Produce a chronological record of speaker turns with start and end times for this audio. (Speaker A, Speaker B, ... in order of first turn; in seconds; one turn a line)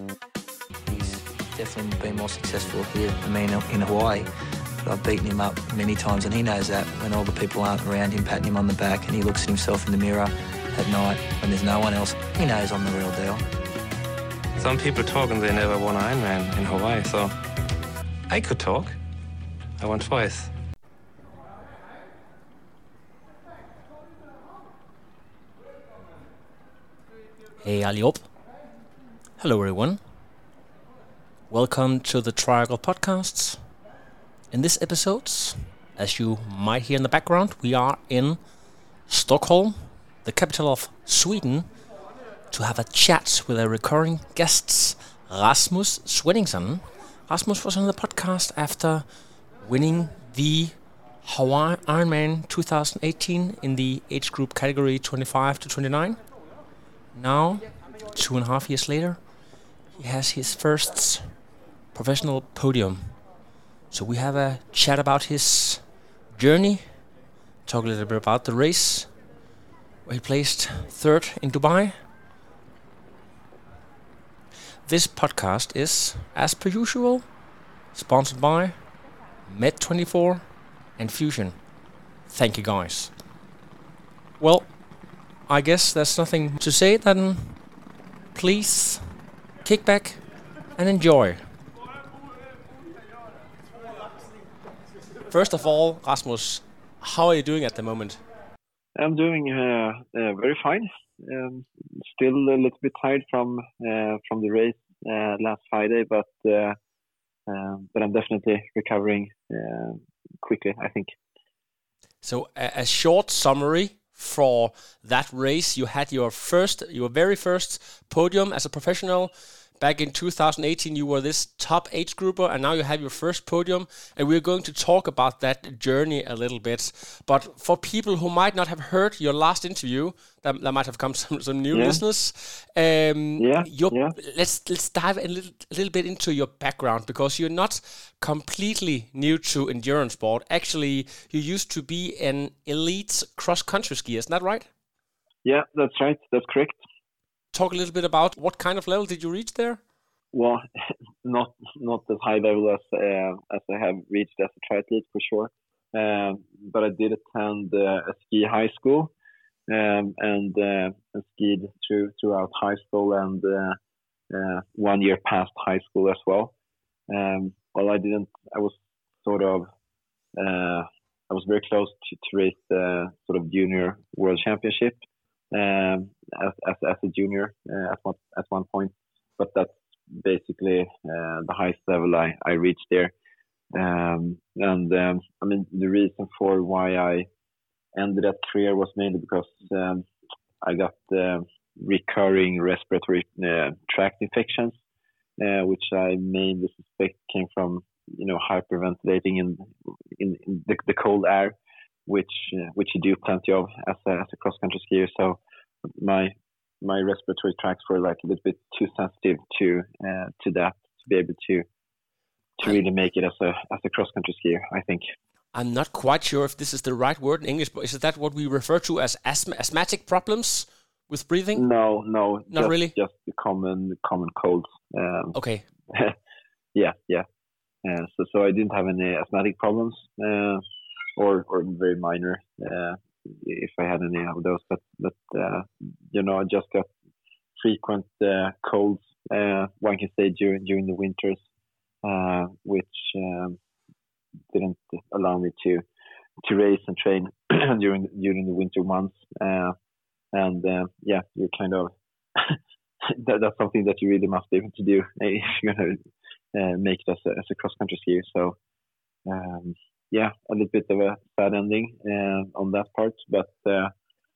Speaker A: 0.9-4.3
Speaker A: 4.8-13.4
Speaker B: 14.6-17.4
Speaker B: 18.3-19.0
Speaker B: 19.8-20.5
Speaker C: 27.6-28.3
Speaker C: 29.4-30.0
Speaker C: 31.5-33.6
Speaker C: 34.5-38.4
Speaker C: 39.1-41.7
Speaker C: 42.5-49.1
Speaker C: 49.6-56.2
Speaker C: 57.1-59.2
Speaker C: 60.0-61.2
Speaker C: 61.9-63.2
Speaker C: 63.9-65.8
Speaker C: 66.3-66.8
Speaker C: 67.7-69.1
Speaker C: 70.1-72.0
Speaker C: 74.9-77.2
Speaker C: 77.9-78.8
Speaker C: 79.5-80.4
Speaker C: 81.0-81.6
Speaker C: 82.3-83.1
Speaker C: 84.4-84.7
Speaker C: 85.5-87.6
Speaker C: 88.3-89.1
Speaker C: 89.7-90.2
Speaker C: 90.8-91.4
Speaker C: 95.3-98.2
Speaker D: 99.0-106.8
Speaker D: 107.5-111.1
Speaker C: 112.2-144.7
Speaker D: 131.7-132.0
Speaker D: 133.4-134.2
Speaker D: 145.4-146.8
Speaker C: 147.5-149.8
Speaker D: 150.3-150.7
Speaker D: 151.2-159.1
Speaker D: 159.7-163.8
Speaker D: 164.3-166.5
Speaker D: 167.1-169.7
Speaker D: 170.4-175.0
Speaker D: 175.5-183.1
Speaker D: 183.7-187.3
Speaker D: 187.9-190.1
Speaker D: 190.6-194.8
Speaker D: 195.4-201.6
Speaker D: 202.1-211.7
Speaker D: 212.6-215.1
Speaker C: 215.5-221.7
Speaker D: 221.6-225.4
Speaker C: 222.5-222.9
Speaker C: 225.3-225.7
Speaker D: 225.9-226.2
Speaker D: 226.7-227.3
Speaker D: 227.8-230.6
Speaker D: 231.2-236.9
Speaker D: 237.6-241.4
Speaker D: 242.0-243.6
Speaker D: 244.5-245.8
Speaker D: 246.4-249.8
Speaker D: 250.3-256.0
Speaker D: 256.5-258.6
Speaker D: 259.3-263.9